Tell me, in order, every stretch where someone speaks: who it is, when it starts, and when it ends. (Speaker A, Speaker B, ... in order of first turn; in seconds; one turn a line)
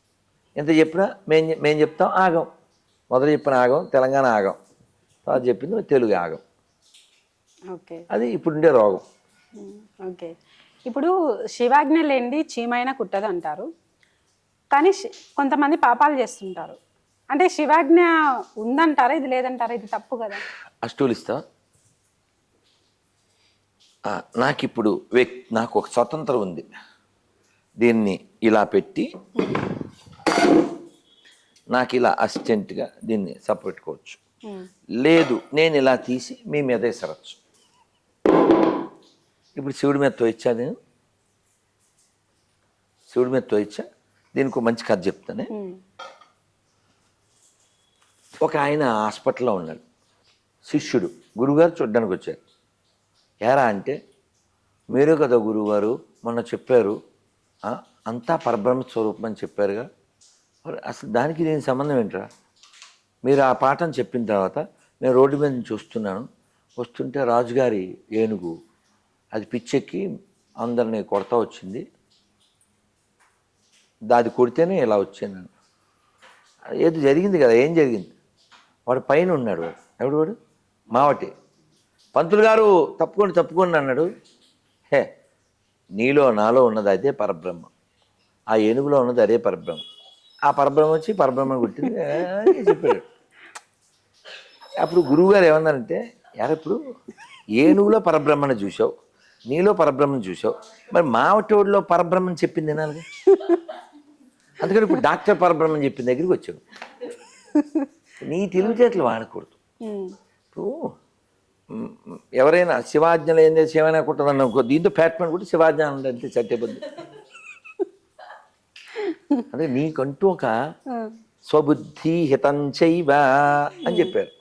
Speaker A: 0.6-2.5
Speaker A: 3.1-4.6
Speaker A: 5.2-6.4
Speaker B: 7.7-8.0
Speaker A: 8.1-9.0
Speaker B: 9.6-10.3
Speaker B: 10.9-13.7
Speaker B: 14.7-16.8
Speaker B: 17.3-20.4
Speaker A: 20.8-21.4
Speaker A: 24.1-26.7
Speaker A: 27.8-29.1
Speaker A: 31.7-34.2
Speaker A: 35.0-37.4
Speaker A: 39.5-40.7
Speaker A: 43.1-45.5
Speaker A: 48.4-49.8
Speaker A: 50.7-52.4
Speaker A: 53.4-54.0
Speaker A: 54.9-57.0
Speaker A: 57.6-59.9
Speaker A: 60.6-62.3
Speaker A: 63.2-66.3
Speaker A: 66.8-68.5
Speaker A: 69.3-70.0
Speaker A: 70.6-71.8
Speaker A: 74.1-75.5
Speaker A: 76.7-78.1
Speaker A: 78.9-80.3
Speaker A: 80.9-81.3
Speaker A: 82.1-84.1
Speaker A: 86.0-87.7
Speaker A: 88.5-89.8
Speaker A: 90.5-93.0
Speaker B: 92.6-92.9
Speaker A: 94.8-96.8
Speaker A: 97.5-98.9
Speaker A: 99.5-103.0
Speaker A: 104.6-106.6
Speaker B: 107.5-107.9
Speaker A: 108.2-109.6
Speaker B: 109.8-110.1
Speaker A: 110.5-110.8
Speaker A: 111.7-117.0
Speaker B: 118.9-119.4
Speaker A: 119.5-120.5
Speaker A: 121.5-124.3
Speaker B: 123.8-124.1